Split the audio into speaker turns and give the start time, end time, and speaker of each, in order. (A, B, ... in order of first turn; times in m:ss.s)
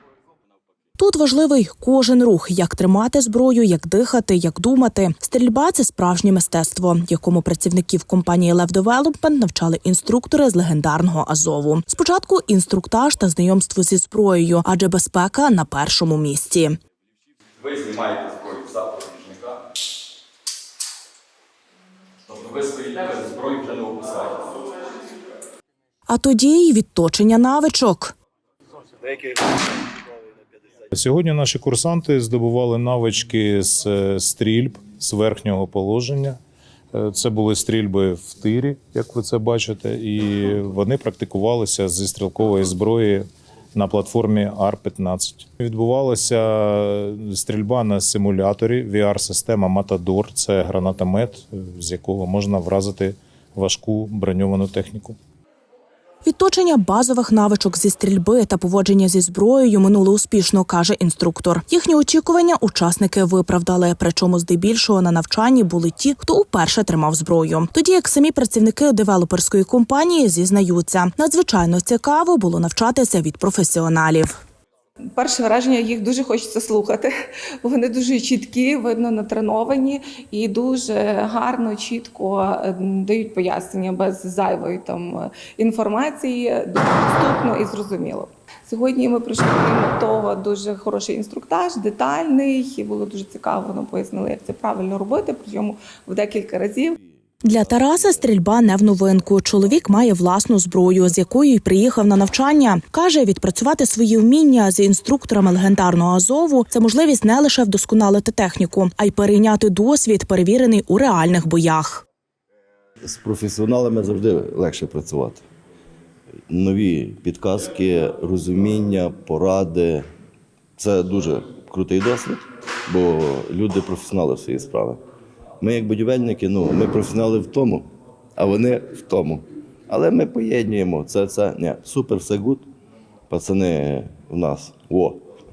0:01.0-0:16.8 A
0:17.8-0:19.3 B
0:22.5-0:24.3 B
0:26.1-0:28.1 A
0:29.0-0:29.7 C
0:30.9-0:36.4 D
0:36.9-0:55.2 D
0:56.2-1:14.3 A
1:15.2-1:17.1 E
1:17.6-1:37.0 E
1:37.4-1:52.0 A
1:53.0-1:55.4 C
1:56.5-2:00.1 C
2:00.8-2:05.0 C
2:05.6-2:12.7 C
2:13.3-2:15.2 C